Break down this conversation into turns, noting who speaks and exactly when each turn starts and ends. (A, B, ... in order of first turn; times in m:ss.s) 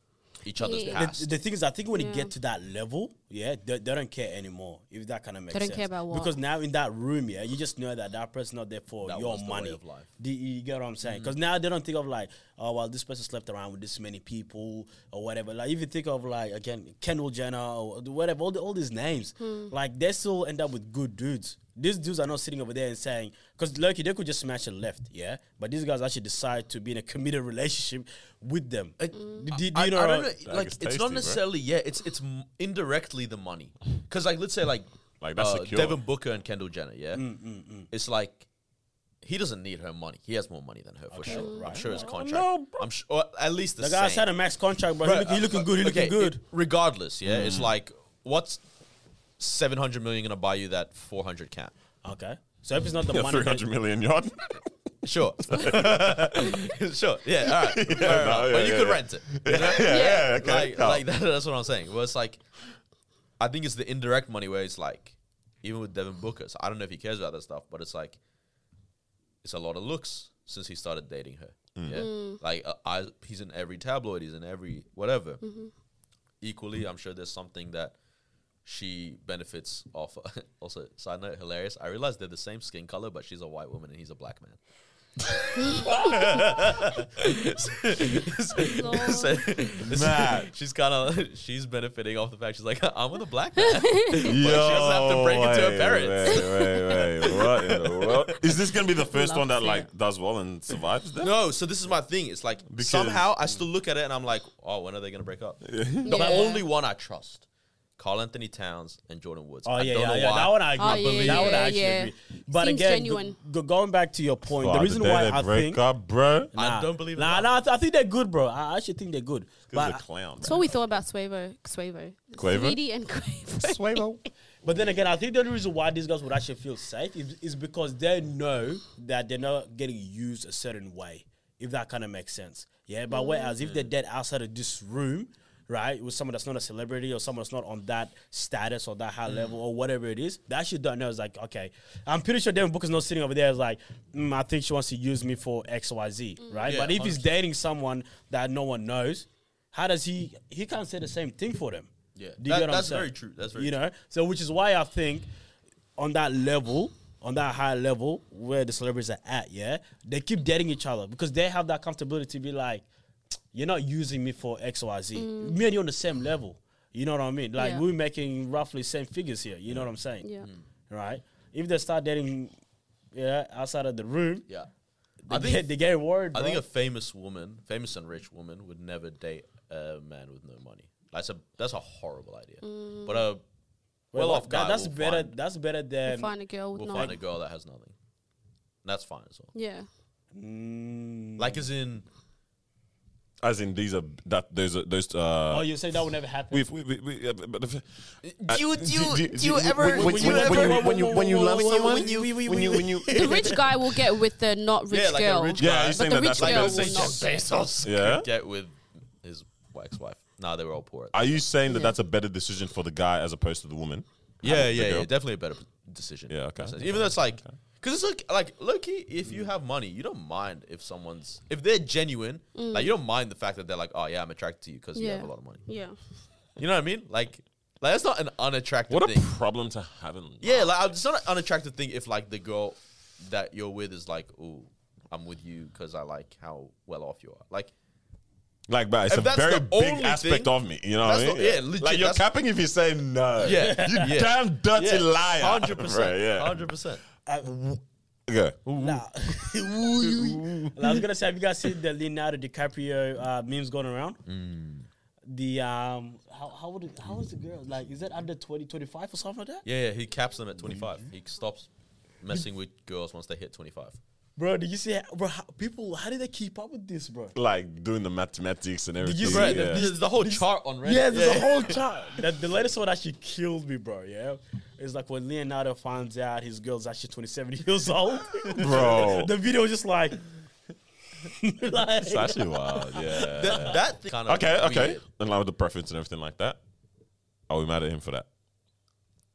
0:00.4-0:01.3 A
0:00.6-0:01.0 B
0:00.9-0:30.3 C
0:01.9-0:02.3 B
0:05.5-0:06.4 B
0:09.0-0:10.1 A
0:11.0-0:11.3 A
0:19.4-0:19.7 B
0:29.0-0:37.2 A
0:29.1-0:29.4 B
0:30.4-0:31.4 D
0:35.2-0:36.0 D
0:37.1-0:37.9 C
0:37.9-0:38.5 A
0:39.2-0:44.3 A
0:41.1-0:42.0 C
0:41.3-0:42.0 B
0:41.4-0:42.9 D
0:43.8-0:46.4 C
0:45.0-0:48.6 A
0:47.2-0:47.7 D
0:49.4-0:51.7 A
0:52.0-0:53.6 C
0:53.0-0:54.7 D
0:55.0-1:02.4 A
0:55.4-0:56.6 D
0:57.4-1:01.0 D
0:59.8-1:00.3 B
1:03.4-1:08.2 A
1:09.4-1:15.4 A
1:11.8-1:12.0 D
1:11.9-1:12.4 B
1:15.4-1:15.7 B
1:16.4-1:17.9 A
1:18.6-1:24.6 A
1:25.5-1:38.3 A
1:25.6-1:26.2 B
1:28.6-1:29.4 B
1:29.8-1:30.5 D
1:33.6-1:34.4 B
1:34.2-1:41.3 D
1:36.3-1:36.8 B
1:39.0-1:39.8 B
1:41.2-1:47.4 A
1:42.7-1:43.3 D
1:45.6-1:46.4 D
1:46.0-1:46.6 B
1:48.0-1:51.8 A
1:49.6-1:55.8 C
1:50.8-1:53.4 B
1:54.5-1:56.5 D
1:56.5-1:57.5 A
1:56.5-2:00.0 C
1:59.7-2:00.7 D
2:00.4-2:04.0 B
2:02.4-2:02.8 D
2:03.6-2:04.2 D
2:04.6-2:35.3 C
2:13.1-2:13.5 B
2:13.6-2:13.9 A
2:26.4-2:26.7 B
2:26.6-2:27.3 A
2:32.2-2:33.7 A
2:36.0-2:42.9 C
2:43.5-2:50.3 C
2:45.2-2:45.6 B
2:47.6-2:47.8 B
2:50.2-2:50.5 B
2:50.9-2:52.5 C
2:53.1-2:54.5 C
2:55.2-2:56.6 C
2:55.3-2:55.7 A
2:56.3-3:03.4 A
3:02.6-3:03.3 B
3:04.1-3:06.3 C
3:04.1-3:05.3 A
3:06.0-3:07.2 B
3:06.7-3:07.9 A
3:06.9-3:07.2 C
3:08.8-3:09.5 A
3:09.5-3:09.9 B
3:10.3-3:11.6 C
3:11.4-3:12.0 A
3:13.4-3:15.7 D
3:15.5-3:16.7 C
3:16.5-3:17.8 D
3:18.2-3:23.6 A
3:18.4-3:23.5 D
3:19.8-3:23.5 C
3:23.1-3:27.5 B
3:24.9-3:31.3 A
3:25.6-3:27.3 D
3:27.8-3:28.3 D
3:31.1-3:35.1 D
3:31.7-3:32.0 B
3:34.4-3:45.6 A
3:36.3-3:37.5 D
3:42.6-3:42.9 B
3:45.0-3:46.0 B
3:46.6-3:49.3 A
3:48.9-3:50.8 D
3:50.4-3:57.7 A
3:58.7-4:06.7 D
3:59.1-4:02.2 A
4:03.4-4:07.0 A
4:03.5-4:04.1 C
4:07.3-4:07.8 C
4:08.3-4:08.6 D
4:08.6-4:09.0 A
4:08.8-4:14.2 C
4:10.1-4:10.4 A
4:14.2-4:14.9 A
4:15.3-4:19.6 C
4:19.6-4:21.7 A
4:22.2-4:24.0 A
4:24.4-4:27.3 C
4:27.3-4:29.9 D
4:29.0-4:40.2 C
4:29.2-4:31.8 A
4:38.5-4:39.3 D
4:41.2-4:43.7 C
4:42.0-4:46.6 D
4:43.2-4:45.0 A
4:47.5-4:48.3 D